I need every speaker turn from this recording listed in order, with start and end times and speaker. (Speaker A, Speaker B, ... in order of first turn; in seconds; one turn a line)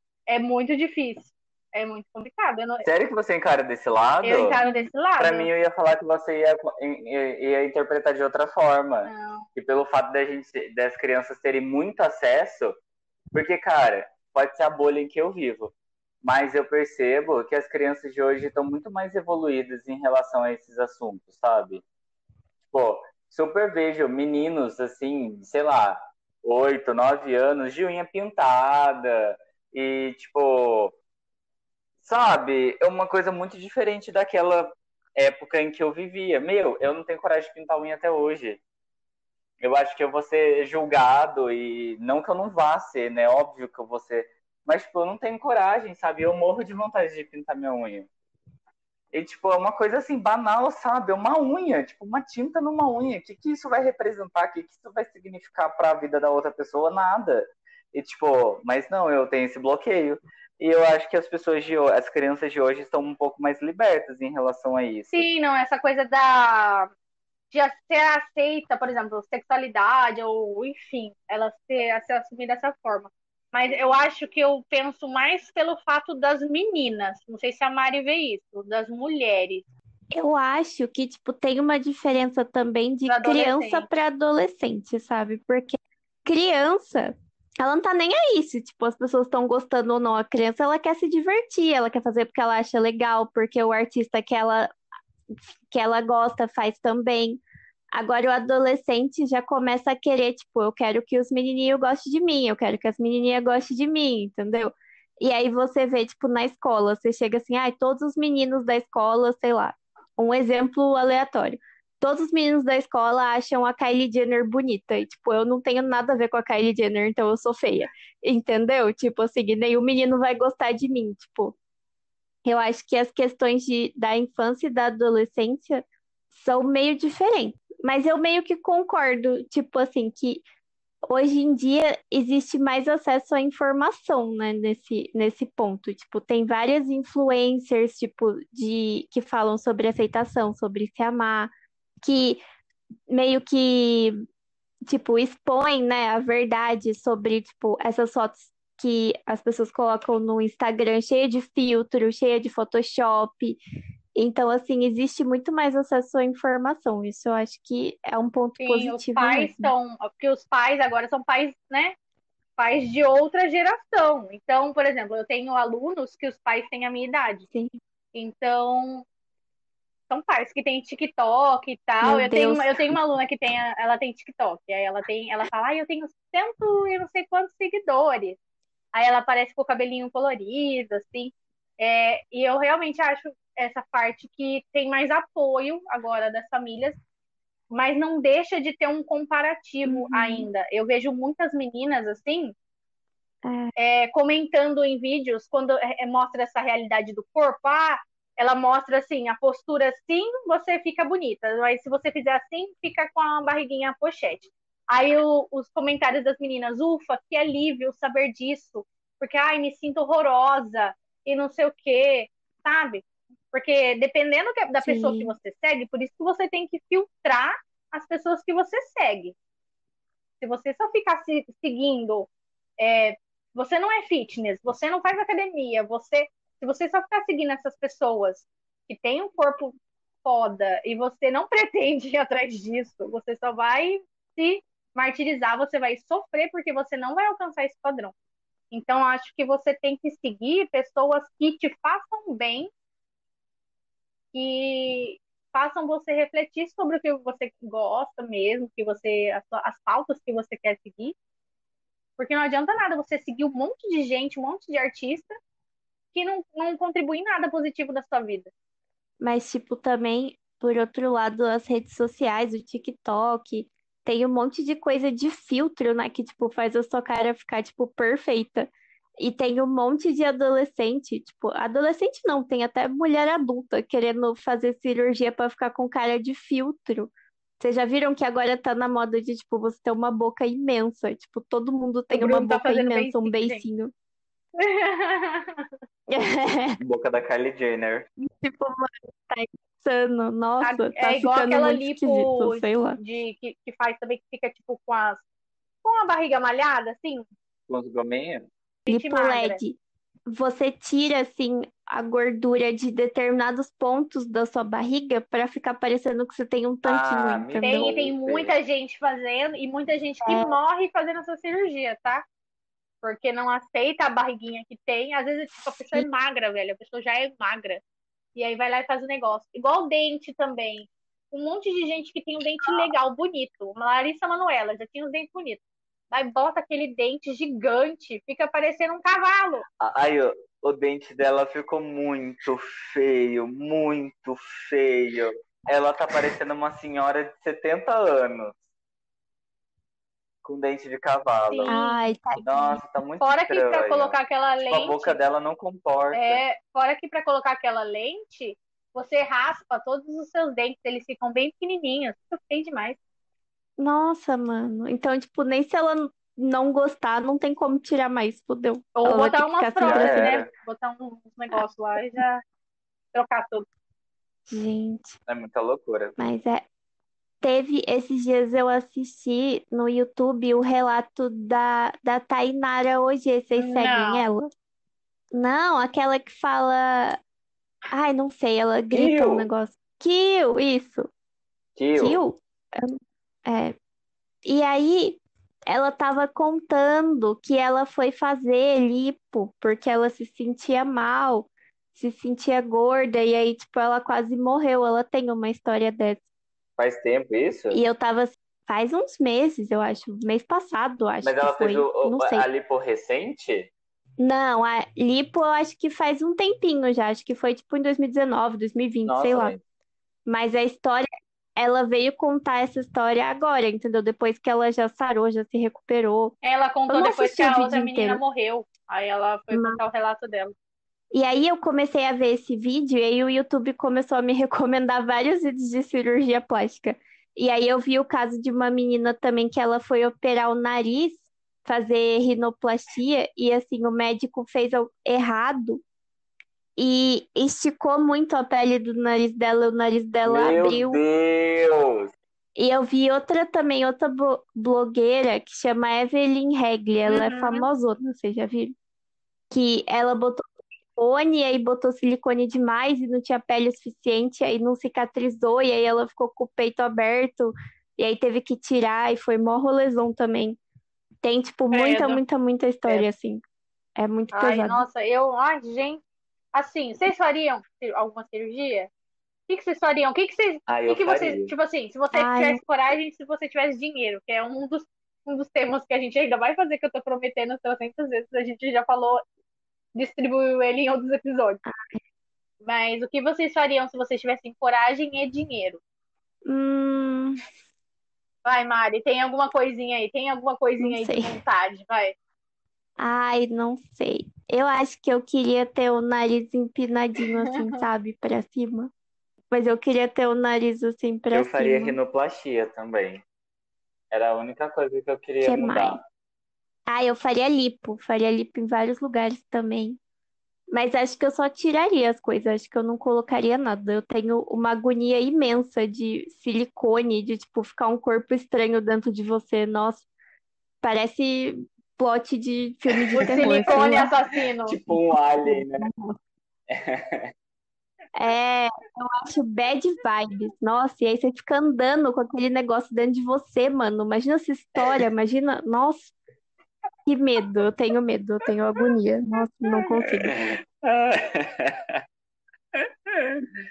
Speaker A: 0.3-2.9
Speaker B: 2.8-4.6
Speaker A: 4.2-5.5
Speaker B: 5.2-12.8
Speaker A: 9.1-9.5
Speaker B: 13.3-21.8
Speaker B: 22.7-31.0
Speaker B: 32.0-38.6
Speaker B: 39.6-48.1
Speaker B: 49.1-65.2
Speaker A: 65.1-66.9
Speaker A: 67.5-79.7
Speaker C: 80.1-94.7
Speaker A: 83.1-83.9
Speaker C: 95.7-97.4
Speaker C: 97.9-121.5
Speaker C: 122.5-130.4
Speaker C: 131.1-141.5
Speaker C: 142.0-142.4
Speaker C: 143.1-144.2
Speaker C: 144.9-153.6
Speaker C: 154.2-159.7
Speaker A: 158.6-162.0
Speaker A: 162.6-167.5
Speaker C: 167.5-167.8
Speaker A: 168.2-169.1
Speaker A: 170.1-178.4
Speaker C: 172.0-173.0
Speaker A: 178.9-187.0
Speaker A: 187.7-192.5
Speaker C: 189.9-190.5
Speaker C: 193.4-193.7
Speaker A: 193.8-219.3
Speaker C: 214.8-215.3
Speaker A: 220.4-229.7
Speaker A: 230.2-238.1
Speaker A: 238.7-242.7
Speaker A: 244.3-251.2
Speaker A: 252.2-255.4
Speaker A: 256.1-258.5
Speaker C: 259.2-283.9
Speaker A: 282.1-283.6
Speaker A: 284.6-285.7
Speaker C: 286.1-286.8
Speaker B: 286.8-288.1
Speaker C: 288.2-293.0
Speaker A: 290.6-295.2
Speaker A: 295.8-297.3
Speaker B: 297.7-298.5
Speaker A: 298.9-299.6
Speaker C: 298.9-307.9
Speaker B: 306.9-308.6
Speaker A: 307.6-312.2
Speaker C: 310.3-310.5
Speaker A: 313.0-317.8
Speaker A: 318.4-329.6
Speaker B: 329.8-338.6
Speaker B: 340.4-341.8
Speaker A: 341.5-342.1
Speaker C: 341.7-342.8
Speaker B: 342.4-344.2
Speaker A: 343.2-345.2
Speaker B: 344.7-346.4
Speaker A: 346.1-353.0
Speaker C: 353.8-360.2
Speaker A: 358.9-362.4
Speaker B: 359.9-360.5
Speaker A: 363.1-363.7
Speaker C: 364.5-365.2
Speaker B: 365.3-366.1
Speaker C: 366.2-366.6
Speaker C: 367.4-374.5
Speaker A: 373.5-374.2
Speaker C: 375.3-377.2
Speaker C: 377.9-381.1
Speaker B: 378.9-379.5
Speaker B: 381.8-382.2
Speaker C: 382.0-383.8
Speaker C: 384.5-396.2
Speaker B: 396.8-397.8
Speaker C: 397.7-402.5
Speaker B: 401.2-403.7
Speaker C: 404.2-409.5
Speaker B: 409.1-409.6
Speaker C: 410.3-416.3
Speaker A: 416.4-420.5
Speaker C: 416.9-418.2
Speaker C: 419.5-419.8
Speaker C: 421.1-435.8
Speaker C: 436.8-441.0
Speaker B: 440.3-442.1
Speaker C: 442.6-448.8
Speaker A: 447.1-447.7
Speaker C: 449.5-450.4
Speaker C: 451.0-460.6
Speaker C: 461.2-463.4
Speaker A: 461.7-462.2
Speaker C: 464.0-464.8
Speaker A: 464.3-466.0
Speaker A: 466.5-468.9
Speaker A: 469.5-479.2
Speaker B: 470.7-471.5
Speaker C: 472.1-472.6
Speaker A: 479.9-481.6
Speaker C: 481.7-482.0
Speaker A: 482.6-485.8
Speaker C: 486.5-487.4
Speaker A: 488.4-492.1
Speaker C: 490.8-491.4
Speaker C: 493.0-498.9
Speaker A: 497.6-497.8
Speaker C: 499.5-502.0
Speaker B: 501.3-503.2
Speaker B: 504.1-506.0
Speaker C: 505.4-506.0
Speaker C: 506.9-510.0
Speaker C: 510.7-520.0
Speaker C: 520.8-524.1
Speaker B: 522.9-524.1
Speaker A: 523.2-524.8
Speaker B: 524.6-525.9
Speaker C: 525.4-526.1
Speaker B: 526.7-527.3
Speaker C: 528.1-536.1
Speaker C: 537.1-540.4
Speaker B: 539.8-542.0
Speaker B: 542.7-543.5